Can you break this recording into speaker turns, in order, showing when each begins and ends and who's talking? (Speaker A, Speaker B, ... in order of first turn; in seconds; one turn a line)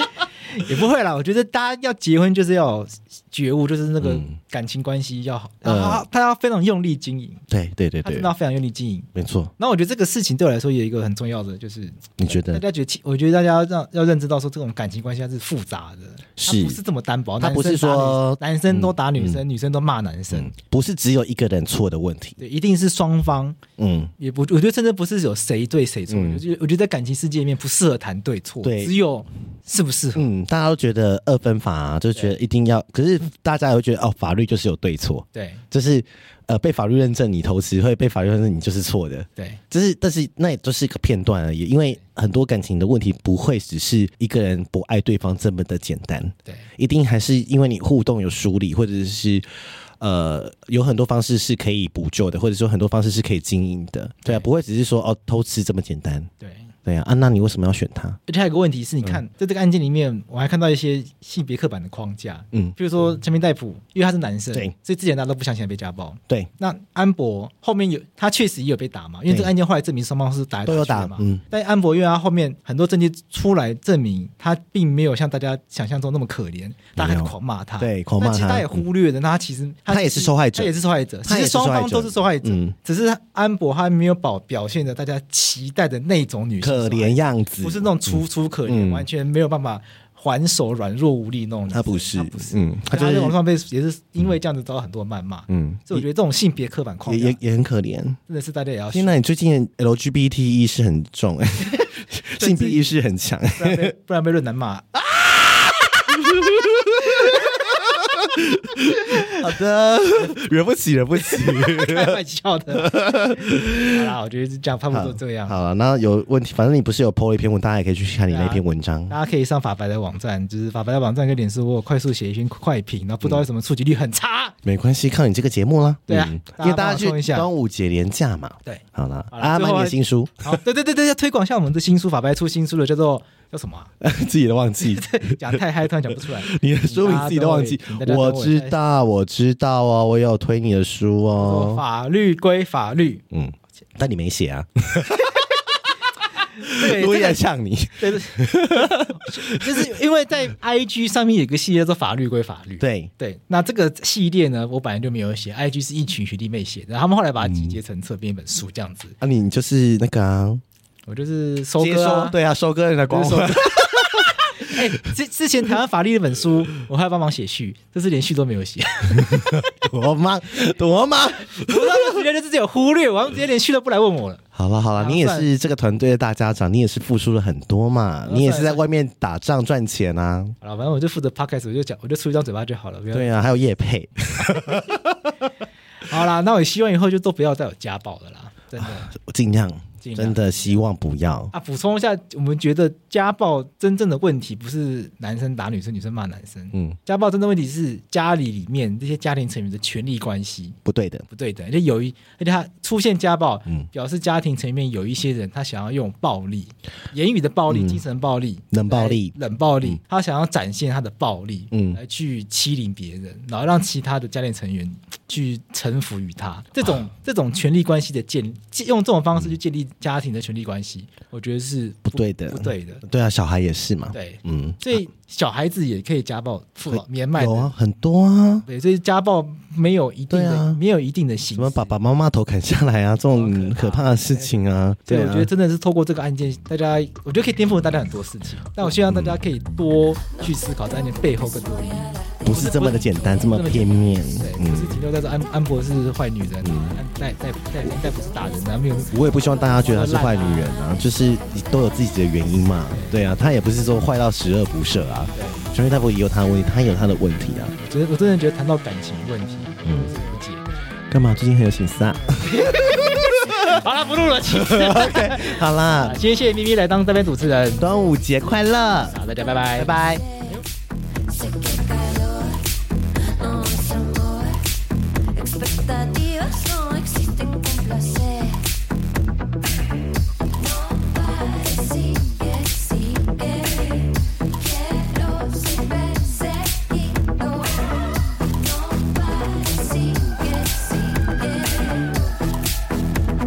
Speaker A: 0.5-7.4
Speaker B: 4.0-4.3
Speaker B: 5.6-6.0
Speaker B: 7.5-8.3
Speaker A: 8.0-20.5
Speaker B: 9.2-9.5
Speaker B: 12.2-12.6
Speaker B: 16.4-16.8
Speaker B: 17.4-19.4
Speaker B: 20.3-22.4
Speaker A: 22.4-23.6
Speaker B: 23.8-24.1
Speaker A: 24.2-30.3
Speaker B: 26.1-26.4
Speaker B: 28.6-28.9
Speaker B: 30.1-49.4
Speaker A: 35.3-35.6
Speaker B: 50.0-56.3
Speaker A: 56.4-56.7
Speaker B: 56.9-58.2
Speaker A: 58.3-97.4
Speaker B: 70.7-71.4
Speaker B: 77.0-78.8
Speaker B: 79.9-80.7
Speaker B: 81.2-82.7
Speaker B: 86.6-89.0
Speaker B: 91.7-93.4
Speaker B: 95.5-96.0
Speaker B: 97.1-98.2
Speaker A: 98.3-99.2
Speaker B: 98.9-103.9
Speaker A: 102.4-102.9
Speaker A: 103.6-105.0
Speaker B: 105.0-112.2
Speaker A: 111.6-113.0
Speaker B: 112.7-114.0
Speaker A: 113.6-115.6
Speaker B: 114.9-119.2
Speaker A: 118.3-124.6
Speaker B: 124.6-130.6
Speaker A: 126.1-127.5
Speaker A: 128.7-133.9
Speaker B: 134.0-135.6
Speaker A: 134.9-138.8
Speaker B: 136.2-141.8
Speaker A: 141.4-143.2
Speaker B: 143.3-145.6
Speaker A: 146.6-147.4
Speaker B: 146.6-149.9
Speaker A: 148.0-159.2
Speaker B: 152.8-153.1
Speaker B: 157.4-157.8
Speaker B: 159.2-160.6
Speaker A: 161.1-162.4
Speaker B: 161.8-164.5
Speaker A: 163.1-169.7
Speaker B: 169.2-172.1
Speaker A: 171.5-174.4
Speaker B: 174.6-180.6
Speaker A: 175.0-175.5
Speaker A: 178.3-178.8
Speaker A: 180.6-183.6
Speaker B: 183.1-185.3
Speaker A: 184.5-184.8
Speaker A: 186.1-189.1
Speaker B: 188.8-191.5
Speaker A: 190.0-190.8
Speaker A: 191.5-200.8
Speaker B: 200.8-201.3
Speaker A: 201.3-223.0
Speaker B: 207.7-208.0
Speaker B: 208.7-209.3
Speaker B: 211.7-212.0
Speaker B: 222.1-224.8
Speaker A: 224.1-227.7
Speaker B: 226.9-228.7
Speaker A: 228.7-231.9
Speaker B: 230.3-230.8
Speaker B: 231.5-235.5
Speaker A: 233.3-234.5
Speaker A: 235.1-249.2
Speaker B: 239.1-239.4
Speaker C: 241.8-242.3
Speaker B: 242.4-245.0
Speaker B: 246.6-247.0
Speaker B: 249.1-257.8
Speaker C: 249.1-249.8
Speaker A: 249.7-250.8
Speaker C: 250.5-251.2
Speaker A: 252.9-253.2
Speaker A: 255.3-255.7
Speaker A: 257.8-260.6
Speaker B: 259.8-260.1
Speaker B: 261.1-263.8
Speaker A: 262.4-267.8
Speaker B: 264.5-266.2
Speaker B: 267.8-269.2
Speaker A: 269.1-269.9
Speaker C: 269.6-270.6
Speaker B: 269.7-270.2
Speaker C: 271.3-272.7
Speaker C: 273.3-274.7
Speaker C: 275.3-278.7
Speaker C: 280.5-292.4